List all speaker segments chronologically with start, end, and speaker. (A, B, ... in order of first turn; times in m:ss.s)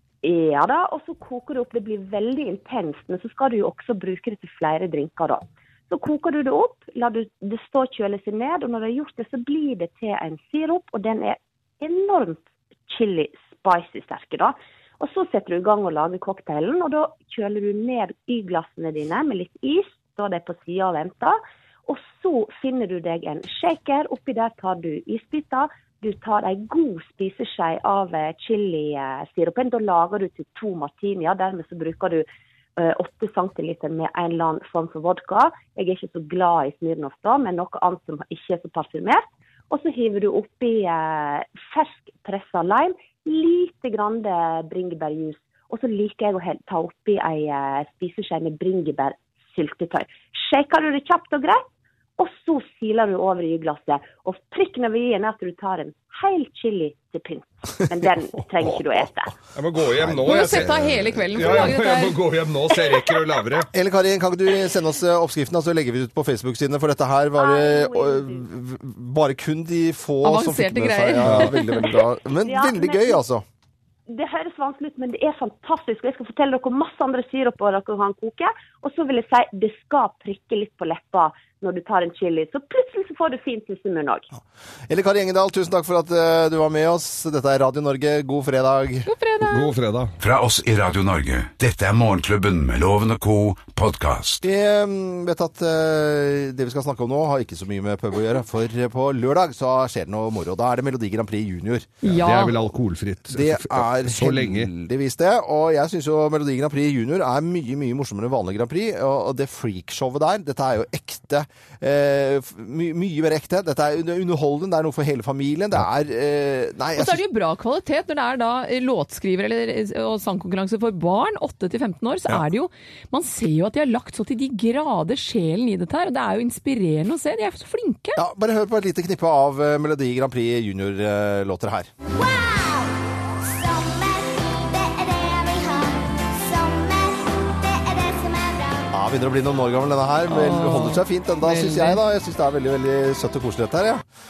0:00.2-0:32.2 A
0:32.8-0:51.6 A
0:52.2-0:59.4 A
0:59.5-1:03.7 B
0:59.9-1:00.6 C
1:00.2-1:02.2 D
1:03.7-1:13.4 C
1:07.4-1:08.4 A
1:10.2-1:12.0 D
1:11.2-1:11.5 B
1:12.4-1:13.2 A
1:14.1-1:24.3 A
1:24.3-1:29.1 C
1:29.1-1:29.7 D
1:29.4-1:30.1 B
1:30.2-1:34.4 E
1:34.4-1:42.0 C
1:42.0-1:42.6 D
1:42.0-1:44.7 B
1:43.3-1:57.2 C
1:57.0-2:08.2 D
2:08.2-2:11.9 C
2:12.1-2:18.9 F
2:18.9-2:24.0 C
2:20.3-2:22.0 D